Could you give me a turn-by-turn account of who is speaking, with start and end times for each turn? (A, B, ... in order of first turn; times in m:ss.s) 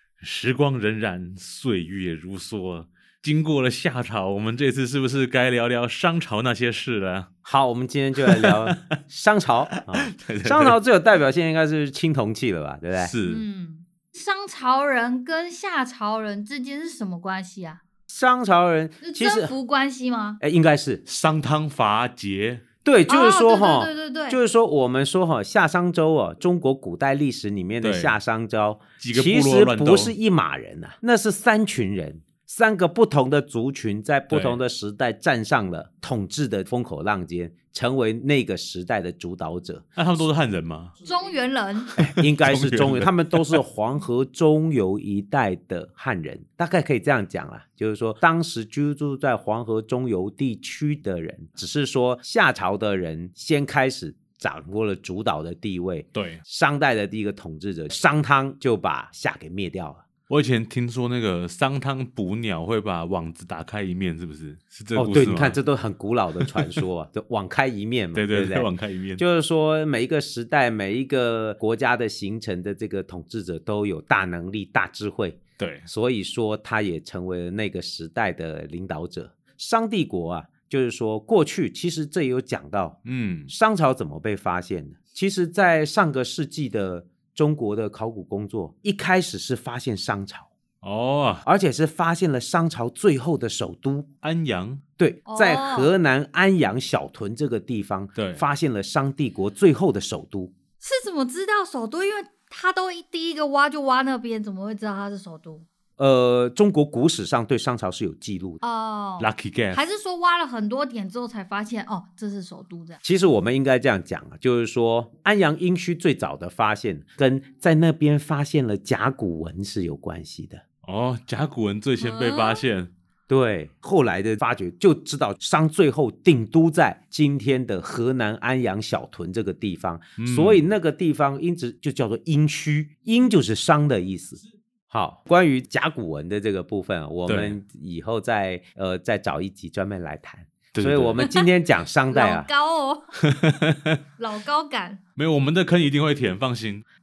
0:00.2-0:07.3 A
0:07.4-0:13.1 B
0:08.2-0:09.0 A
0:09.8-0:10.8 A
0:13.0-0:13.4 A
0:13.3-0:17.8 C
0:18.1-0:19.5 B
0:19.0-0:20.4 C
0:20.4-0:21.0 B
0:21.1-0:22.6 A
0:22.8-0:40.0 B
0:23.1-0:24.4 C
0:27.8-0:28.2 A
0:29.0-0:30.1 A
0:34.3-0:34.6 A
0:40.0-0:41.0 A
0:41.0-0:41.9 C
0:42.0-0:43.6 A
0:42.0-1:00.0 B
0:56.2-0:56.4 A
1:00.3-1:05.6 A
1:05.0-1:30.5 B
1:06.4-1:06.8 A
1:08.2-1:09.2 A
1:15.6-1:15.9 A
1:23.0-1:23.5 A
1:30.8-1:31.4 A
1:31.4-1:34.1 B
1:34.2-1:34.8 A
1:35.0-1:40.5 B
1:35.3-1:35.9 C
1:38.2-1:38.4 A
1:40.8-1:45.7 C
1:46.0-1:48.6 B
1:48.6-1:53.0 C
1:49.2-1:49.8 A
1:53.0-2:00.6 B
2:00.8-2:02.9 A
2:02.0-2:02.6 C
2:03.3-2:22.5 B
2:10.2-2:10.6 A
2:17.3-2:17.6 A
2:20.7-2:21.2 A
2:21.2-2:21.5 C
2:22.1-2:23.2 C
2:23.2-2:24.0 A
2:24.2-2:25.0 C
2:25.2-2:26.8 A